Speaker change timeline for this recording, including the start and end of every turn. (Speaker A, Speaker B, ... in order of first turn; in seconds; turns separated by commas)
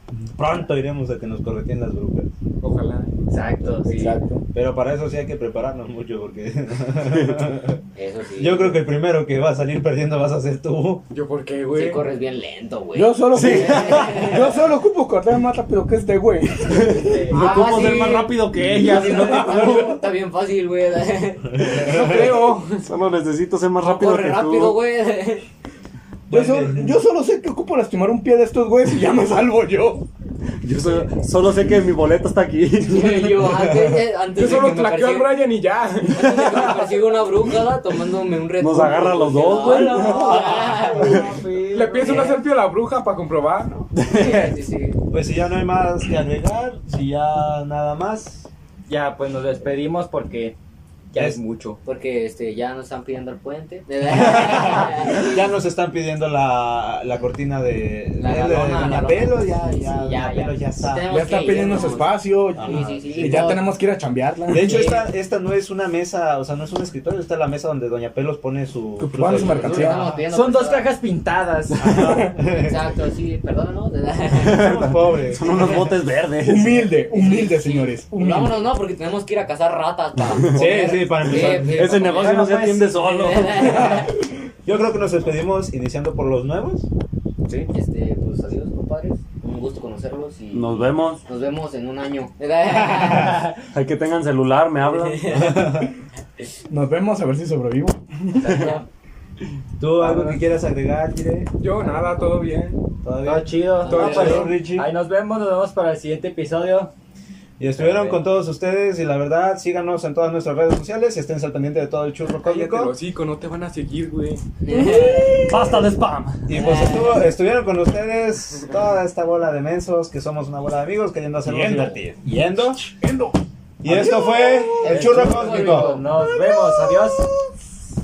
Speaker A: 0.4-2.3, Speaker B: 2.6-3.2, Speaker C: 3.3-4.2, Speaker D: 3.9-4.4, Speaker A: 4.5-7.8, Speaker E: 7.1-7.4, Speaker F: 8.0-8.8, Speaker A: 8.4-11.0, Speaker B: 11.1-12.1, Speaker F: 11.7-14.6, Speaker D: 12.9-17.3, Speaker E: 13.3-14.4, Speaker E: 16.6-20.0, Speaker C: 16.9-17.7, Speaker F: 17.3-22.0, Speaker D: 18.6-20.0, Speaker A: 21.7-22.3, Speaker B: 21.8-22.9, Speaker E: 22.1-24.8, Speaker F: 23.8-25.5, Speaker A: 26.3-26.9, Speaker D: 26.3-30.1, Speaker E: 30.6-33.9, Speaker F: 32.8-35.3, Speaker B: 34.3-36.5, Speaker F: 36.1-41.2, Speaker E: 36.3-36.7, Speaker E: 38.6-41.2, Speaker C: 39.6-42.4, Speaker B: 41.7-43.9, Speaker E: 44.0-44.5, Speaker F: 44.0-45.0, Speaker A: 45.1-48.5, Speaker C: 48.9-50.5, Speaker C: 51.1-51.8, Speaker F: 51.9-55.4, Speaker A: 54.1-61.1, Speaker F: 58.2-63.6, Speaker D: 61.1-65.0, Speaker A: 62.5-63.6, Speaker A: 64.5-70.2, Speaker F: 64.5-65.0, Speaker D: 69.0-70.1, Speaker F: 69.3-70.9, Speaker C: 70.3-71.9, Speaker A: 71.8-72.9, Speaker D: 71.9-72.3, Speaker F: 72.5-74.8, Speaker E: 74.3-77.0, Speaker A: 74.4-75.5, Speaker F: 75.4-75.9, Speaker D: 76.4-78.6, Speaker F: 77.1-84.1, Speaker E: 80.3-84.1, Speaker A: 80.5-82.0, Speaker C: 82.1-83.1, Speaker A: 84.6-86.9, Speaker F: 87.7-93.5, Speaker E: 90.5-91.2, Speaker A: 92.7-93.4, Speaker E: 93.1-95.6, Speaker F: 94.8-95.9, Speaker A: 95.3-96.0, Speaker D: 96.7-98.5, Speaker C: 98.4-98.9, Speaker E: 98.5-98.7, Speaker F: 98.5-98.8, Speaker A: 99.8-102.2, Speaker C: 100.0-100.4, Speaker B: 101.6-102.8, Speaker A: 103.0-104.9, Speaker C: 103.2-106.9, Speaker F: 103.8-104.5, Speaker B: 103.9-104.6, Speaker A: 107.6-112.9, Speaker C: 107.8-108.2, Speaker B: 112.4-114.4, Speaker F: 114.6-115.5, Speaker E: 115.4-116.5, Speaker A: 116.5-122.8, Speaker F: 116.5-117.2, Speaker D: 121.5-122.0, Speaker D: 122.9-127.2, Speaker A: 123.8-126.0, Speaker F: 124.9-126.1, Speaker C: 125.1-127.3